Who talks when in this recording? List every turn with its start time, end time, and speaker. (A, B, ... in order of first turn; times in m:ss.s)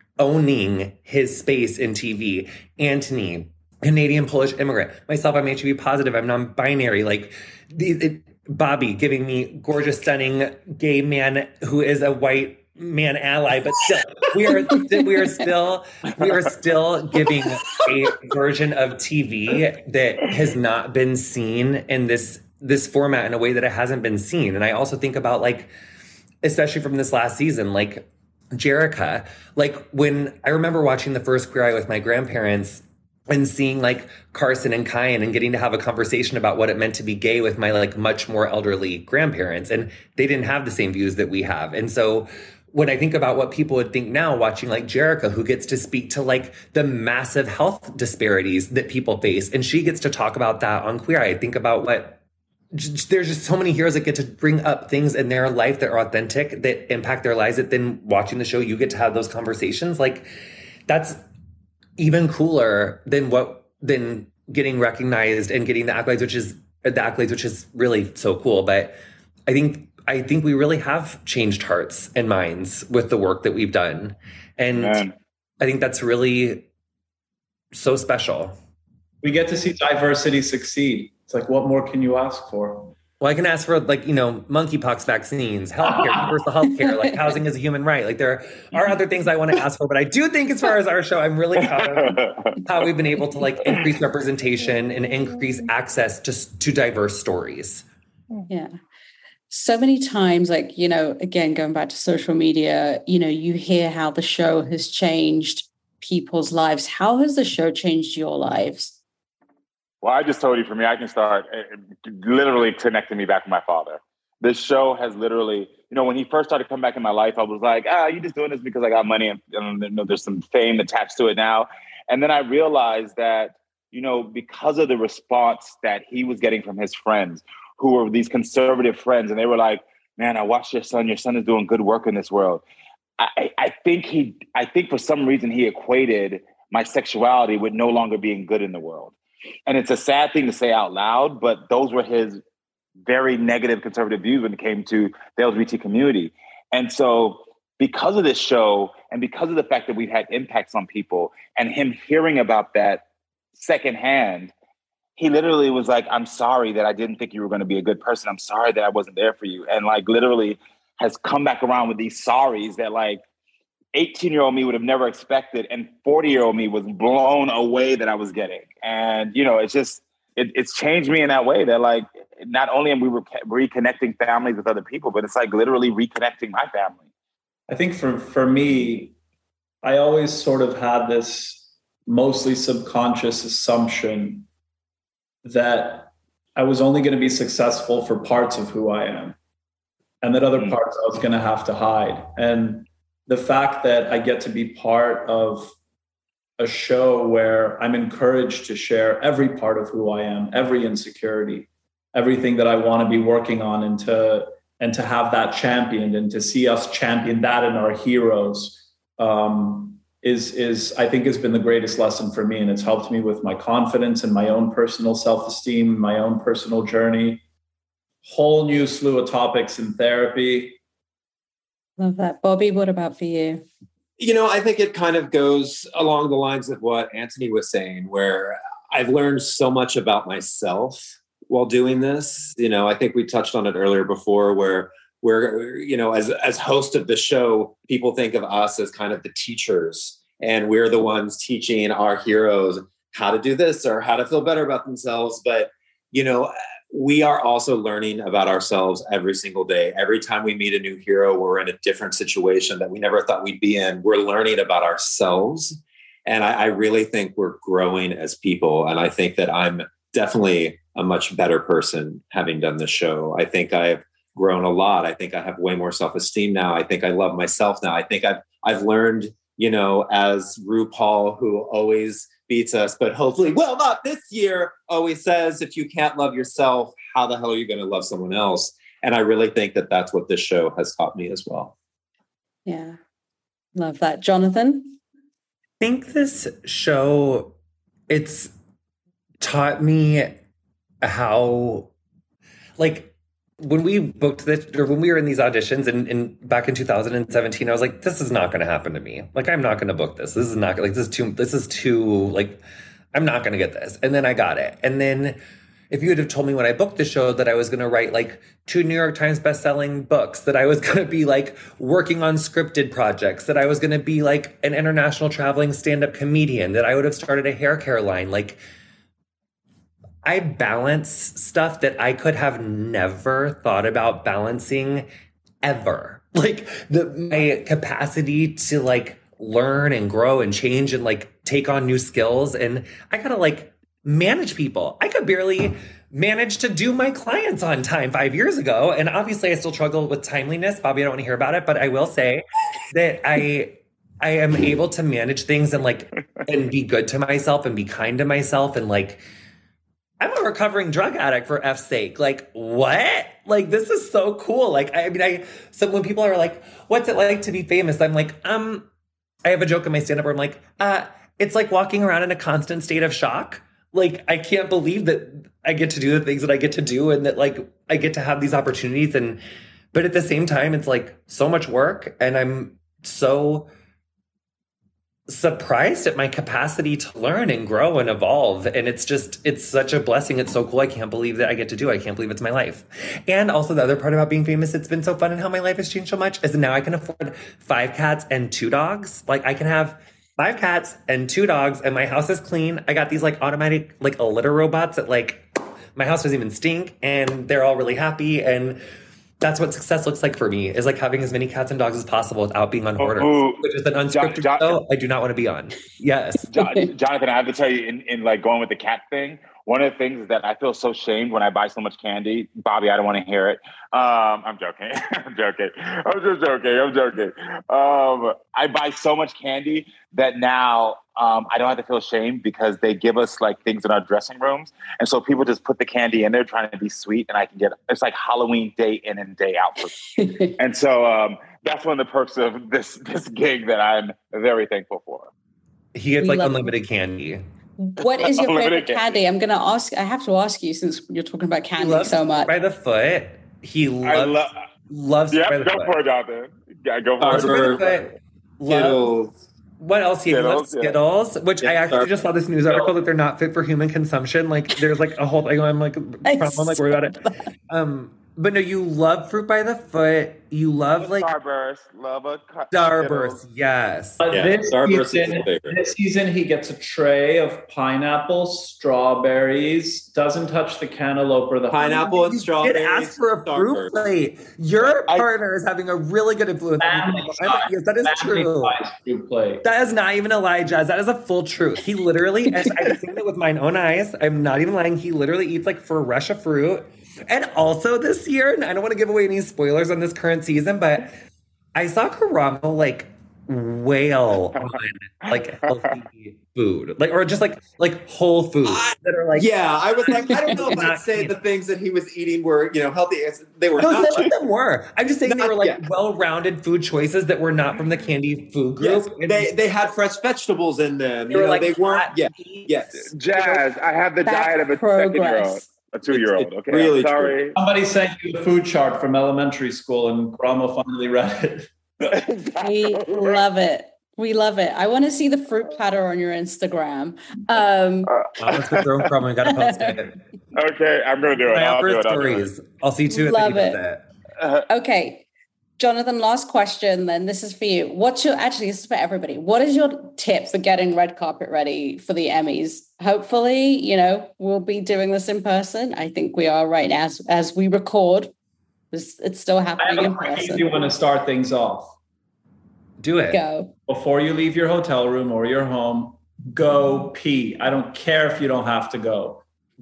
0:00.2-0:25.7 A
0:26.4-0:52.2 A
0:52.7-1:00.3 A
1:00.9-1:01.2 A
1:02.0-1:15.0 A
1:14.8-1:15.1 B
1:15.6-1:16.7 A
1:17.7-1:18.5 A
1:19.2-1:22.9 C
1:23.2-1:37.8 A
1:31.6-1:32.6 B
1:39.5-1:49.0 D
1:50.0-2:12.6 B
2:13.2-2:19.1 B
2:19.7-2:22.4 B
2:23.0-2:33.0 B
2:33.6-2:34.5 B
2:35.2-2:43.2 B
2:43.9-2:57.0 B
2:57.7-2:59.1 C
2:59.8-3:04.4 C
3:05.4-3:09.4 C
3:10.2-3:15.7 C
3:16.6-3:37.4 C
3:38.2-3:40.8 C
3:42.0-3:43.6 D
3:44.2-4:41.7 E
4:42.6-4:43.0 D
4:43.8-4:45.0 D
4:45.8-4:47.6 A
4:48.1-4:48.5 A
4:49.4-4:50.4 A
4:51.0-4:51.9 A
4:52.8-5:02.6 A
5:03.1-5:05.4 A
5:05.9-5:18.6 A
5:20.2-5:25.1 A
5:25.6-5:49.2 A
5:50.2-5:58.9 A
5:59.4-6:09.4 A
6:09.9-6:13.7 A
6:15.3-6:38.8 A
6:39.4-6:46.5 A
6:43.0-6:44.8 B
6:46.5-7:15.3 B
7:10.2-7:10.5 D
7:15.9-7:17.4 A
7:16.2-7:16.7 D
7:17.8-7:22.5 D
7:18.2-7:19.2 B
7:21.8-7:26.0 A
7:24.0-7:24.5 B
7:25.3-7:28.0 B
7:27.2-7:28.0 E
7:27.3-7:29.1 A
7:28.7-7:29.3 E
7:29.8-7:41.3 A
7:30.3-7:31.0 B
7:31.6-7:32.1 E
7:36.2-7:37.4 D
7:41.0-7:43.4 B
7:42.7-7:44.3 A
7:44.2-7:52.1 C
7:44.3-7:45.8 E
7:51.7-7:53.9 E
7:52.0-7:58.8 A
7:56.8-7:59.6 C
7:59.6-8:11.1 A
8:11.7-8:19.5 A
8:18.6-8:24.3 E
8:20.0-8:21.4 A
8:23.8-8:29.5 A
8:25.2-8:25.8 E
8:28.8-8:33.1 E
8:31.3-8:33.0 A
8:33.1-8:37.6 B
8:34.2-8:35.7 D
8:36.1-8:37.4 E
8:37.6-8:41.7 C
8:42.0-8:43.4 B
8:42.6-8:48.1 D
8:48.1-8:49.0 B
8:48.4-8:50.2 A
8:49.4-8:50.0 D
8:50.5-8:52.4 B
8:51.4-8:54.0 A
8:53.1-8:53.8 D
8:54.4-8:54.6 B
8:54.7-8:55.2 D
8:55.8-9:08.3 D
9:08.9-9:10.9 D
9:09.8-9:11.9 C
9:13.0-9:13.4 A
9:13.3-9:13.7 D
9:13.9-9:19.4 C